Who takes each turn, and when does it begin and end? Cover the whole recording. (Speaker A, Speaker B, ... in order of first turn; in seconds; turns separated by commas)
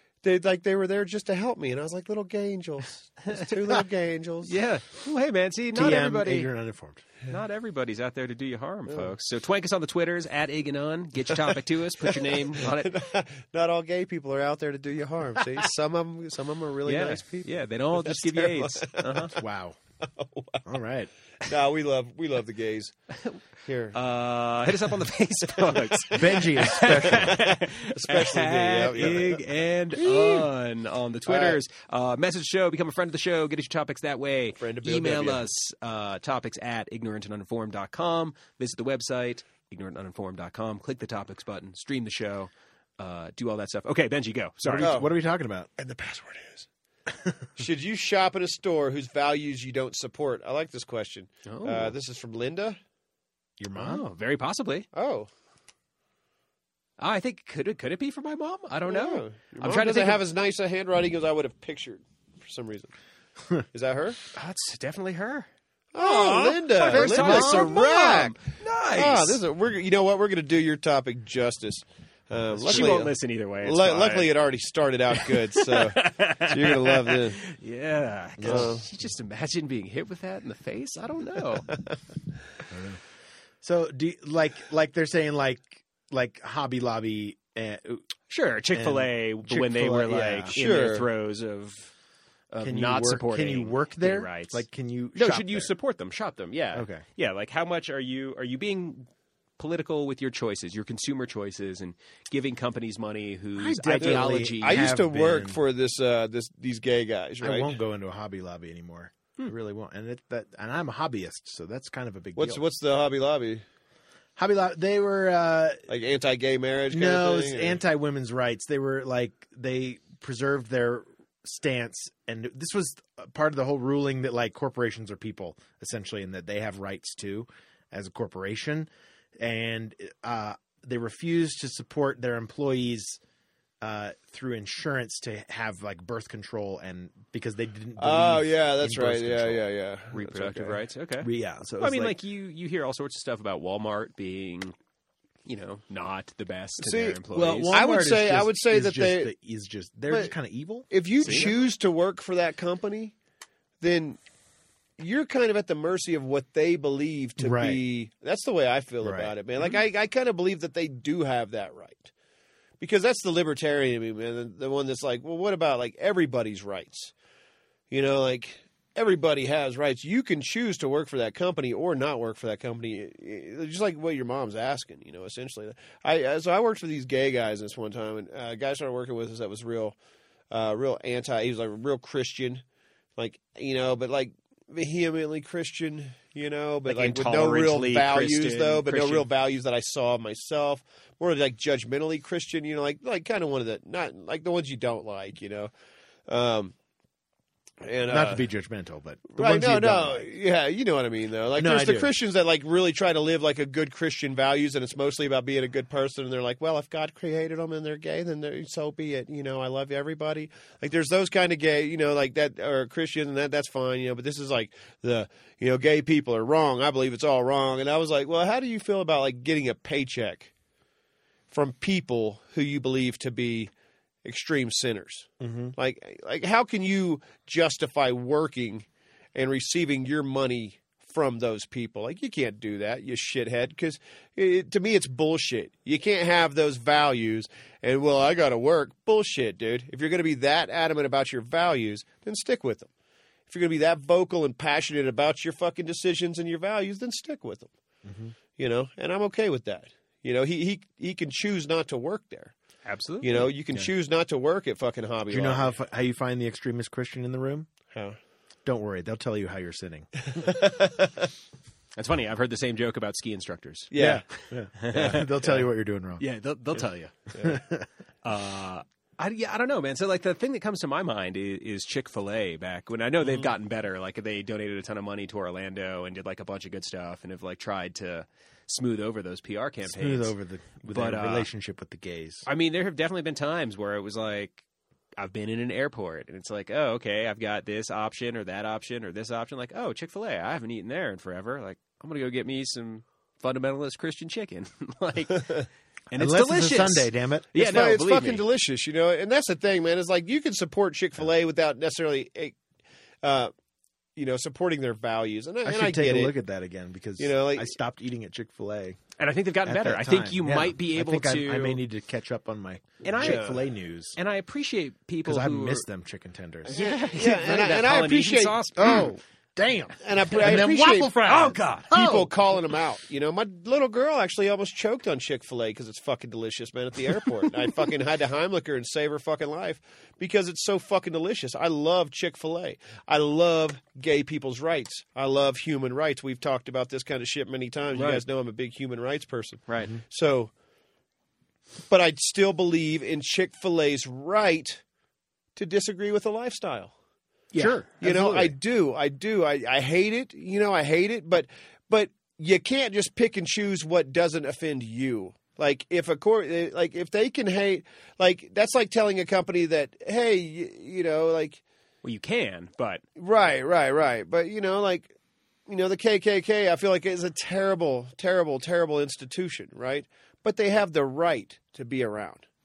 Speaker A: 0.2-4.6, Speaker B: 4.4-6.5, Speaker C: 5.7-7.0, Speaker B: 7.3-12.9, Speaker A: 12.0-19.4, Speaker B: 16.8-19.4, Speaker C: 19.4-19.8, Speaker A: 20.0-20.7, Speaker C: 20.7-21.1, Speaker A: 21.4-22.9, Speaker A: 23.7-24.0, Speaker B: 23.9-45.0, Speaker A: 25.6-29.4, Speaker C: 26.1-27.4, Speaker A: 29.9-30.5, Speaker A: 31.3-31.6, Speaker A: 34.6-35.4, Speaker C: 44.6-45.7, Speaker A: 44.8-45.1, Speaker A: 45.8-46.7, Speaker C: 47.1-47.5, Speaker A: 47.6-52.8, Speaker B: 51.5-51.9, Speaker C: 53.6-54.0, Speaker B: 53.7-54.9, Speaker A: 54.9-55.3, Speaker B: 57.0-60.2, Speaker A: 58.9-62.9, Speaker A: 63.7-64.2, Speaker B: 64.3-69.4, Speaker A: 65.9-68.4, Speaker C: 66.9-67.8, Speaker A: 68.9-77.4, Speaker C: 72.5-72.9, Speaker B: 72.6-74.3, Speaker B: 75.1-81.7, Speaker C: 78.4-78.7, Speaker A: 78.4-78.8, Speaker C: 82.7-83.0, Speaker C: 83.6-88.0, Speaker B: 88.3-91.9, Speaker C: 88.7-90.5, Speaker A: 90.5-91.1, Speaker B: 92.5-94.6, Speaker C: 92.6-95.7, Speaker B: 95.1-104.9, Speaker C: 96.7-97.0, Speaker C: 103.6-105.6, Speaker A: 104.0-107.7, Speaker C: 107.4-112.6, Speaker A: 112.3-113.6, Speaker C: 114.4-115.8, Speaker A: 115.9-117.8, Speaker C: 116.9-128.9, Speaker C: 129.4-133.2, Speaker C: 133.8-139.6, Speaker A: 138.0-140.8, Speaker B: 140.1-144.8, Speaker C: 141.2-142.1, Speaker B: 145.4-147.8, Speaker A: 146.8-149.3, Speaker C: 147.3-151.5, Speaker A: 150.9-153.1, Speaker B: 151.2-151.5, Speaker A: 153.8-154.2, Speaker A: 155.0-162.1, Speaker C: 157.4-157.8, Speaker C: 159.0-159.3, Speaker A: 162.8-167.1, Speaker A: 167.9-179.9, Speaker A: 180.5-182.6, Speaker A: 183.2-195.7, Speaker B: 186.9-189.3, Speaker A: 196.3-196.7, Speaker A: 197.8-198.4, Speaker C: 198.1-200.2, Speaker A: 199.3-220.5, Speaker C: 201.6-202.1, Speaker A: 221.5-223.7, Speaker A: 224.2-242.9, Speaker C: 225.4-225.7, Speaker A: 243.5-247.7, Speaker C: 248.1-248.3, Speaker A: 248.6-252.5, Speaker B: 252.8-253.9, Speaker A: 253.2-255.7, Speaker C: 255.3-257.7, Speaker A: 257.9-258.1, Speaker C: 258.6-260.6, Speaker A: 260.3-261.1, Speaker B: 261.9-263.9, Speaker A: 263.9-264.2, Speaker C: 263.9-266.2, Speaker B: 264.8-265.6, Speaker B: 266.2-267.3, Speaker C: 267.4-267.9, Speaker B: 268.2-280.3, Speaker A: 273.2-273.5, Speaker C: 279.8-282.5, Speaker B: 280.9-281.5, Speaker B: 282.4-284.6, Speaker B: 285.2-298.4, Speaker C: 296.1-297.5, Speaker A: 297.6-302.6, Speaker A: 303.2-303.5, Speaker A: 304.1-306.3, Speaker C: 305.6-309.0, Speaker A: 307.2-307.7, Speaker B: 309.2-311.8, Speaker C: 309.6-314.2, Speaker B: 313.0-313.5, Speaker A: 313.2-313.6, Speaker B: 314.1-315.8, Speaker C: 315.2-316.8, Speaker A: 316.7-318.6, Speaker B: 316.7-319.1, Speaker C: 318.8-322.3, Speaker A: 320.0-321.2, Speaker B: 320.4-320.6, Speaker B: 321.2-322.0, Speaker A: 321.9-340.5, Speaker B: 337.9-338.2, Speaker B: 339.7-339.9, Speaker A: 341.9-344.8, Speaker A: 345.6-346.9, Speaker C: 347.5-348.5, Speaker B: 347.6-347.9, Speaker A: 348.0-361.6, Speaker B: 362.0-363.0, Speaker A: 363.2-365.1, Speaker A: 365.7-372.4